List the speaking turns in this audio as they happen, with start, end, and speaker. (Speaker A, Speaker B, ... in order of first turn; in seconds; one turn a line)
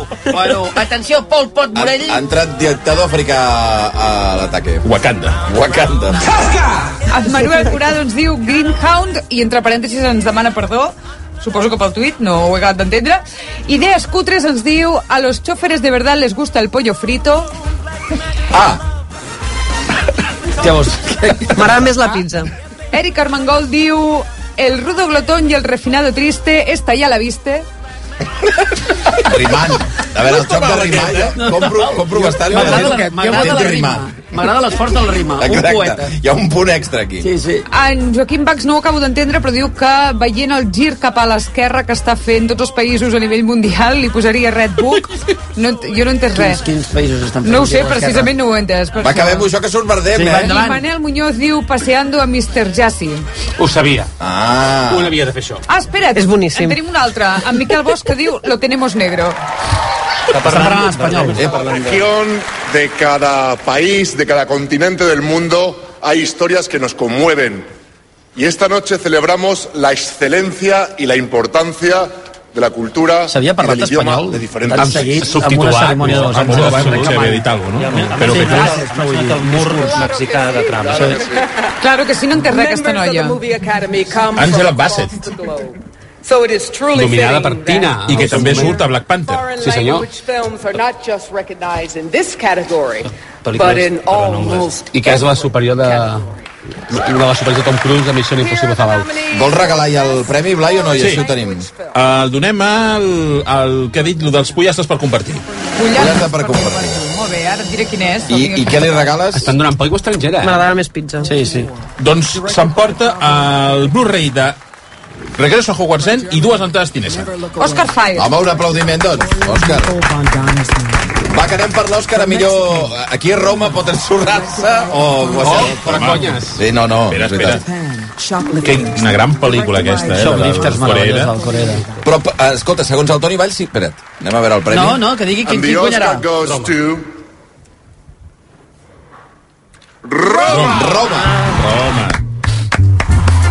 Speaker A: 0.3-2.2
Speaker B: 1.7-4.9
Speaker C: 4.8-5.4
Speaker B: 5.4-6.4
Speaker D: 7.1-17.5
Speaker A: 20.6-21.9
Speaker E: 21.5-22.5
Speaker D: 22.9-27.7
Speaker B: 29.2-34.1
Speaker C: 30.4-31.4
Speaker A: 31.4-36.1
Speaker C: 32.6-32.9
Speaker B: 35.4-37.3
Speaker A: 37.2-37.7
Speaker D: 37.7-46.6
Speaker A: 46.3-48.3
Speaker D: 47.4-49.5
Speaker B: 49.0-50.6
Speaker A: 50.1-50.8
Speaker D: 50.3-53.2
Speaker F: 53.6-54.1
Speaker B: 54.2-55.1
Speaker F: 54.9-55.6
Speaker D: 55.7-59.4
Speaker E: 56.1-56.8
Speaker G: 60.3-62.1
Speaker A: 60.4-62.1
Speaker H: 61.4-67.7
Speaker H: 68.4-75.2
Speaker A: 73.3-77.4
Speaker F: 74.7-77.2
Speaker C: 76.0-78.8
Speaker G: 77.8-81.3
Speaker A: 78.0-80.1
Speaker I: 80.2-81.6
Speaker A: 80.9-81.2
Speaker D: 81.8-83.4
Speaker I: 82.5-96.2
Speaker C: 84.3-85.3
Speaker F: 86.9-88.8
Speaker C: 88.1-89.5
Speaker F: 89.6-90.1
Speaker G: 93.5-94.7
Speaker F: 94.9-96.2
Speaker F: 96.9-99.2
Speaker I: 98.4-99.8
Speaker B: 99.3-101.7
Speaker I: 100.7-102.0
Speaker C: 101.0-101.3
Speaker C: 101.9-105.4
Speaker D: 105.8-109.0
Speaker B: 105.9-107.0
Speaker B: 108.3-109.5
Speaker F: 109.3-110.6
Speaker E: 110.4-111.4
Speaker A: 111.3-111.7
Speaker C: 112.0-114.6
Speaker I: 112.5-112.9
Speaker C: 115.4-117.3
Speaker D: 117.6-118.3
Speaker B: 118.1-120.0
Speaker B: 121.2-127.6
Speaker F: 125.3-126.6
Speaker C: 125.8-126.3
Speaker C: 127.1-127.6
Speaker C: 128.6-131.3
Speaker A: 130.1-131.9
Speaker B: 132.0-135.0
Speaker A: 134.7-136.3
Speaker H: 135.5-137.1
Speaker F: 136.4-136.7
Speaker H: 140.1-140.7
Speaker B: 140.4-141.4
Speaker C: 140.5-140.8
Speaker C: 141.4-142.2